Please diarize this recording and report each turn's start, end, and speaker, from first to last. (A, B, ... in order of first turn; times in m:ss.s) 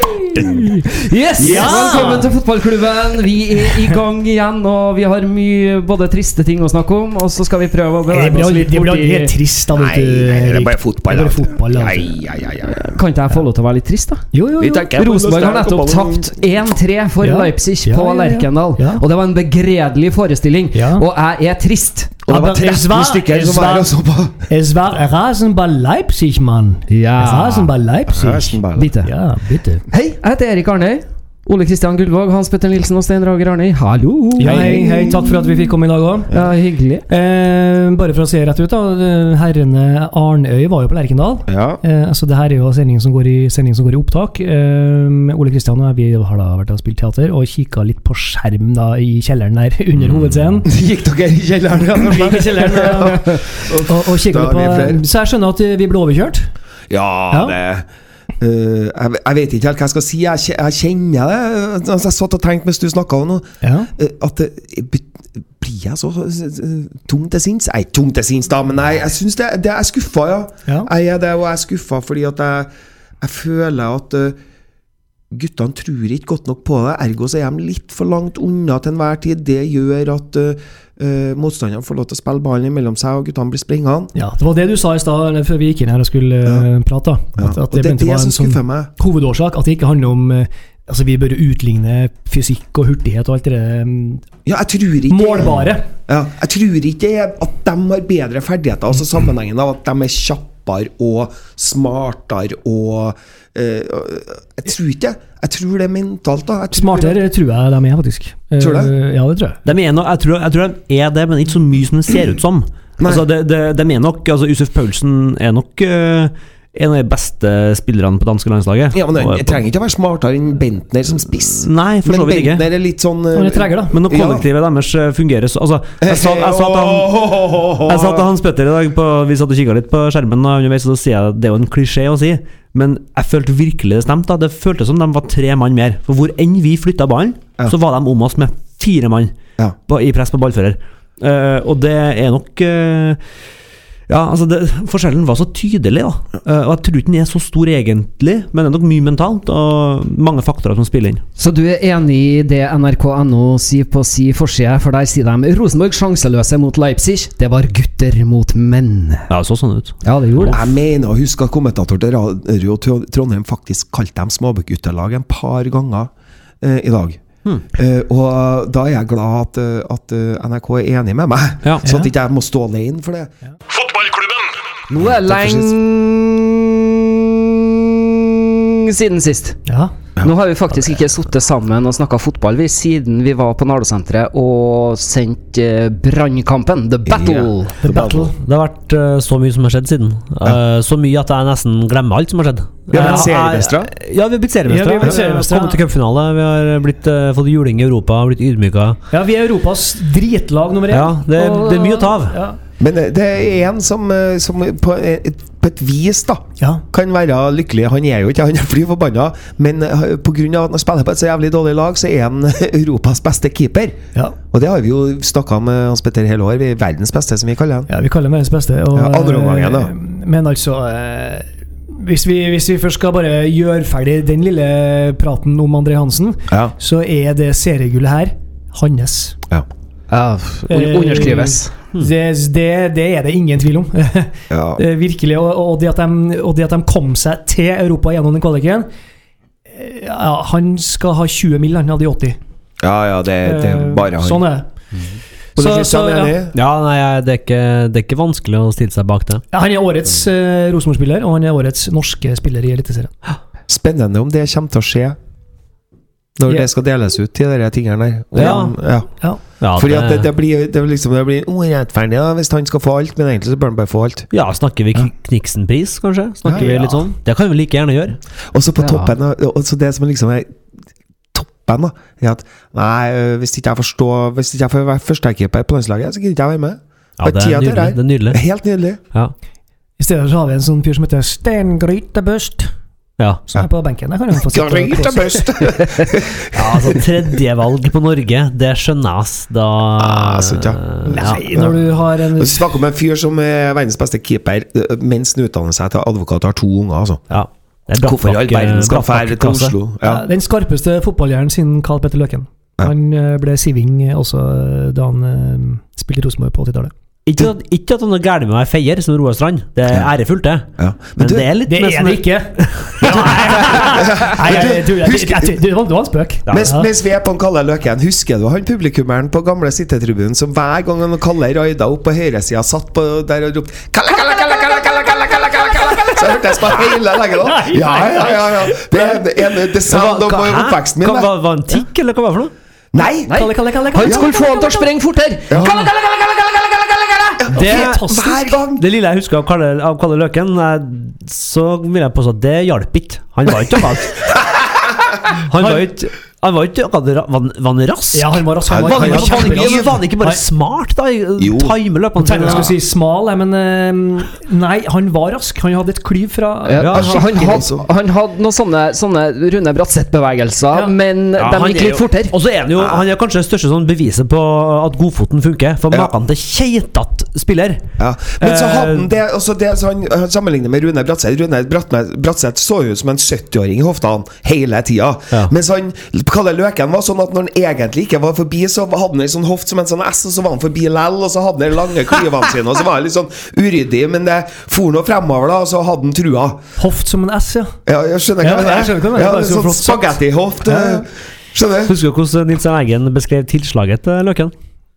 0:00.3-0:02.2 A
0:01.1-0:02.3 B
0:01.4-0:09.4 C
0:01.4-0:02.0 D
0:08.1-0:12.1 B
0:09.7-0:12.9 D
0:12.7-0:14.3 C
0:14.3-0:14.9 B
0:14.6-0:16.3 D
0:14.9-0:22.2 C
0:17.2-0:19.0 B
0:20.7-0:21.0 B
0:22.3-0:24.5 D
0:22.3-0:23.9 B
0:24.5-0:29.8 B
0:26.9-0:27.7 C
0:28.1-0:28.9 D
0:28.8-0:29.1 C
0:30.1-0:35.1 C
0:34.4-0:36.3 B
0:34.4-0:35.7 D
0:36.3-0:37.0 C
0:37.1-0:50.7 B
0:41.5-0:41.8 D
0:50.6-0:55.0 D
0:52.0-0:56.5 B
0:56.9-0:57.9 D
0:57.3-0:57.6 B
0:58.4-1:14.4 D
1:03.6-1:03.9 B
1:15.3-1:24.1 D
1:24.2-1:34.2 B
1:27.4-1:28.9 D
1:34.5-1:47.2 D
1:35.1-1:35.9 B
1:46.7-1:49.6 B
1:48.6-1:48.9 D
1:49.7-1:59.6 A
1:53.0-1:53.2 D
1:58.9-2:04.5 D
2:01.6-2:02.7 A
2:03.3-2:04.0 B
2:03.9-2:07.3 A
2:06.0-2:08.3 D
2:07.8-2:19.3 A
2:19.9-2:23.2 A
2:24.1-2:31.2 A
2:31.4-2:39.3 C
2:39.3-2:40.0 A
2:40.0-2:40.6 C
2:40.5-2:47.2 D
2:47.7-2:53.3 D
2:51.8-2:52.1 B
2:54.9-2:59.6 C
2:55.0-2:55.8 D
2:59.7-2:59.9 B
3:00.2-3:07.8 C
3:07.1-3:08.3 D
3:07.8-3:08.4 B
3:08.4-3:19.0 A
3:12.9-3:13.9 D
3:13.0-3:13.3 B
3:14.7-3:15.8 B
3:19.1-3:22.6 B
3:20.9-3:22.4 A
3:22.8-3:34.0 D
3:34.5-3:37.9 D
3:37.9-3:49.4 B
3:38.9-3:39.9 D
3:50.1-3:51.7 C
3:50.7-3:58.9 B
3:54.5-3:54.8 D
3:59.7-4:02.4 B
4:02.8-4:04.4 D
4:03.4-4:04.7 B
4:05.6-4:06.4 B
4:05.6-4:06.6 D
4:06.5-4:09.4 A
4:09.5-4:13.1 B
4:13.7-4:15.2 D
4:16.4-4:19.1 D
4:18.3-4:18.8 A
4:19.6-4:20.3 A
4:19.8-4:24.3 D
4:24.3-4:28.2 A
4:26.5-4:26.8 D
4:26.5-4:26.9 B
4:28.5-4:30.5 D
4:28.8-4:29.1 C
4:31.3-4:39.0 D
4:37.2-4:38.4 A
4:40.0-4:42.7 B
4:43.5-4:45.6 B
4:44.5-4:47.0 D
4:46.5-4:51.6 A
4:50.0-4:57.2 D
4:51.1-4:52.6 B
4:57.3-4:59.8 A
4:58.0-5:00.3 D
5:00.0-5:06.9 B
5:07.3-5:14.5 A
5:10.8-5:11.5 D
5:11.6-5:16.9 B
5:13.7-5:15.6 D
5:16.5-5:16.7 A
5:16.5-5:31.3 D
5:24.5-5:26.0 C
5:27.3-5:29.2 B
5:29.8-5:32.5 A
5:32.9-5:33.4 D
5:33.3-5:37.4 C
5:33.3-5:34.9 B
5:34.0-5:34.3 D
5:37.4-5:38.8 D
5:37.5-5:38.5 B
5:37.5-5:44.5 A
5:45.5-5:52.7 A
5:45.6-5:45.9 B
5:48.1-5:50.4 B
5:48.7-5:50.0 D
5:51.4-5:51.7 D
5:52.2-5:57.6 B
5:56.6-6:02.4 C
5:56.8-5:57.2 A
5:56.9-5:57.8 D
6:01.4-6:07.8 A
6:08.0-6:26.6 D
6:08.4-6:09.1 A
6:26.8-6:27.8 B
6:27.9-6:31.9 D
6:28.4-6:31.0 B
6:31.9-6:34.5 A